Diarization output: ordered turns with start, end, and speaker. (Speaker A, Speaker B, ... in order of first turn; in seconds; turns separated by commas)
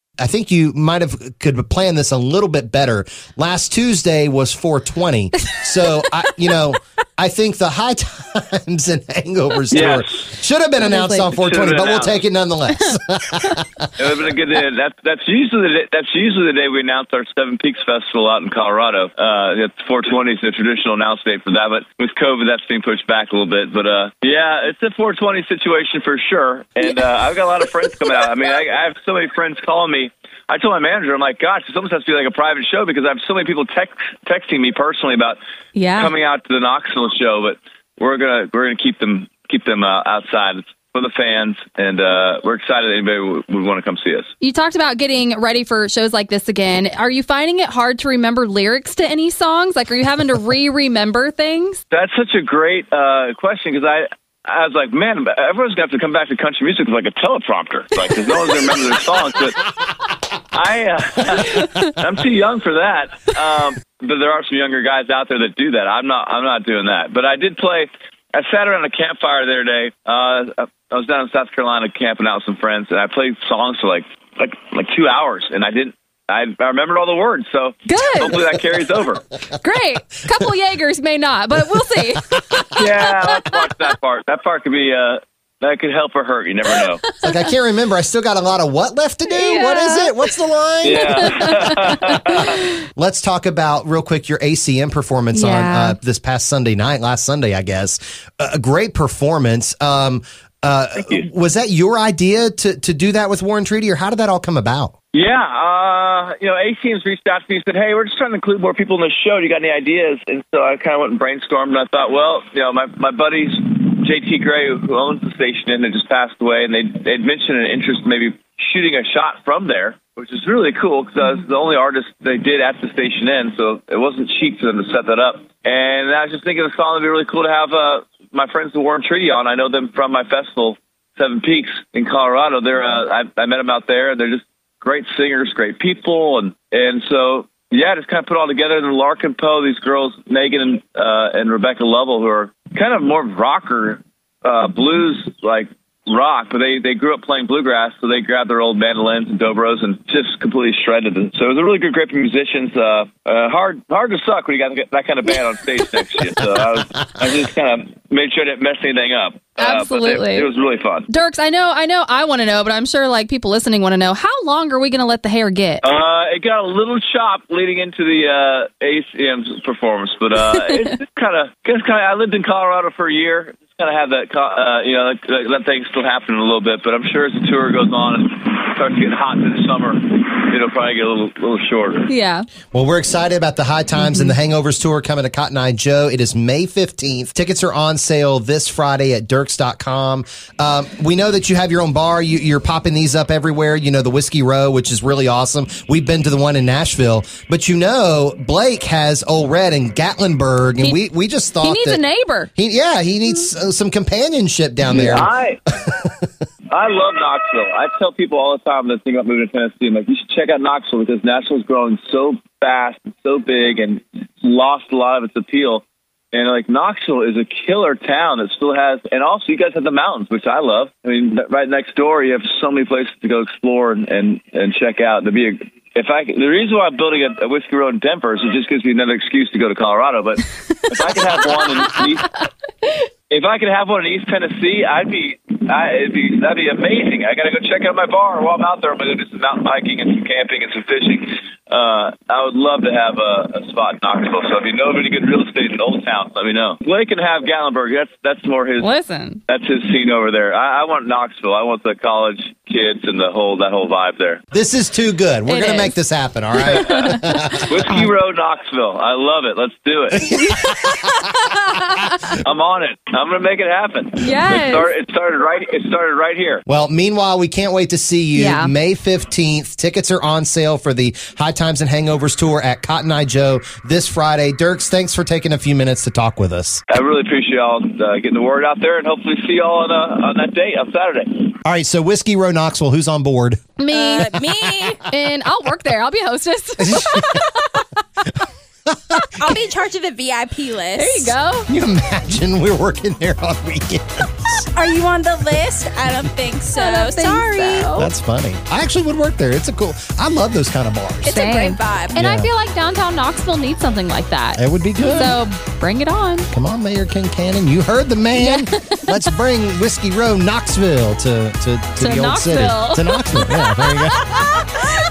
Speaker A: 0.2-13.8, Speaker B: 9.7-10.2, Speaker C: 10.8-11.3, Speaker B: 11.3-12.2, Speaker C: 12.7-13.6, Speaker B: 14.0-35.4, Speaker C: 35.7-36.1, Speaker B: 36.0-44.3, Speaker C: 44.4-51.8, Speaker B: 51.9-59.6, Speaker B: 60.5-79.2, Speaker C: 77.8-78.4, Speaker C: 79.5-82.8, Speaker A: 82.6-82.9, Speaker B: 82.8-87.0, Speaker A: 87.2-104.9, Speaker C: 89.3-90.1, Speaker B: 90.8-92.5, Speaker C: 95.3-96.0, Speaker B: 101.0-101.3, Speaker B: 105.1-161.1, Speaker C: 159.6-160.5, Speaker C: 161.1-165.8, Speaker B: 165.8-182.1, Speaker C: 182.1-182.5, Speaker A: 182.7-202.0, Speaker C: 184.0-184.3, Speaker C: 201.6-202.5, Speaker A: 202.6-205.3, Speaker B: 204.9-205.6, Speaker B: 206.7-232.3, Speaker C: 231.5-231.9, Speaker B: 233.3-248.9, Speaker C: 248.8-249.4, Speaker B: 249.5-254.4, Speaker A: 254.5-258.0, Speaker C: 255.5-255.9, Speaker B: 256.6-260.3, Speaker C: 256.7-258.0, Speaker A: 260.2-261.1, Speaker C: 260.4-262.2, Speaker B: 262.4-266.6, Speaker C: 264.2-264.9, Speaker A: 266.7-276.8, Speaker C: 268.3-268.7, Speaker B: 276.9-281.6, Speaker A: 281.6-283.6, Speaker C: 283.8-284.3, Speaker D: 283.9-285.0, Speaker C: 285.1-287.6, Speaker A: 286.8-287.5, Speaker A: 288.9-289.1, Speaker D: 289.4-291.4, Speaker C: 290.9-291.7, Speaker A: 291.7-294.7, Speaker D: 294.7-297.9, Speaker C: 296.8-298.1, Speaker A: 297.9-301.4, Speaker D: 301.2-302.2, Speaker C: 301.3-306.5, Speaker A: 302.1-302.5, Speaker A: 304.5-305.4, Speaker A: 306.5-314.4, Speaker C: 308.3-309.1, Speaker C: 312.0-314.8